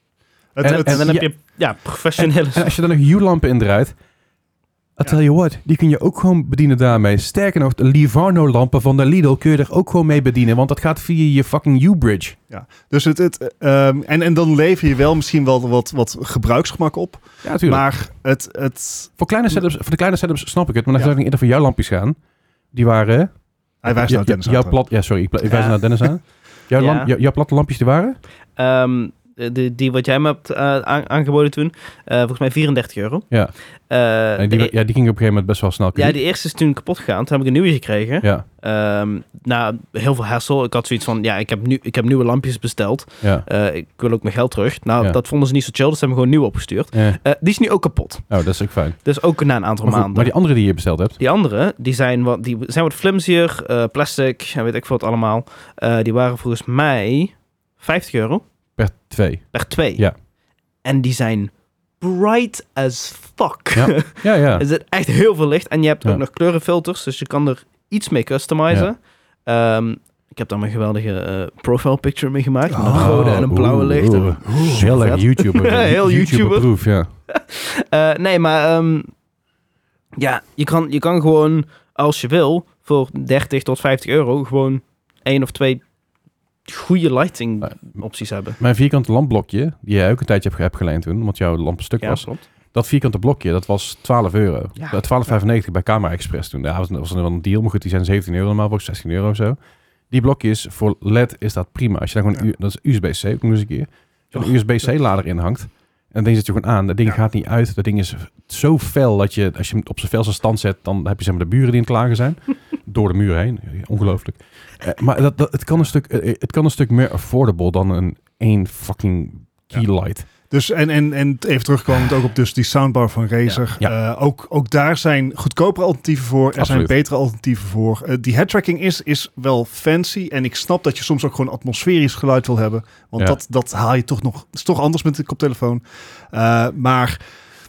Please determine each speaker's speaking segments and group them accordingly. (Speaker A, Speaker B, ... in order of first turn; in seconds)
Speaker A: 0.6-1.1, 12.5-19.1, 23.8-24.8, 72.7-73.4, 74.5-74.9, 120.5-137.2
Speaker B: 0.6-1.3, 2.2-4.0, 5.0-12.4, 17.4-17.9, 19.2-22.2, 22.7-23.3, 23.9-28.2, 34.4-36.2, 46.9-47.2, 48.3-49.0, 49.8-51.2, 58.8-60.1, 63.7-64.7, 72.9-77.1, 88.6-99.6, 100.1-120.3, 126.6-126.9
Speaker C: 0.7-2.7, 25.5-26.1, 26.8-27.1, 28.6-33.3, 33.9-34.7, 36.0-48.3, 49.0-50.3, 51.2-58.4, 59.5-60.0, 60.8-76.7, 77.3-79.1, 80.2-85.8, 86.7-88.6, 92.0-92.4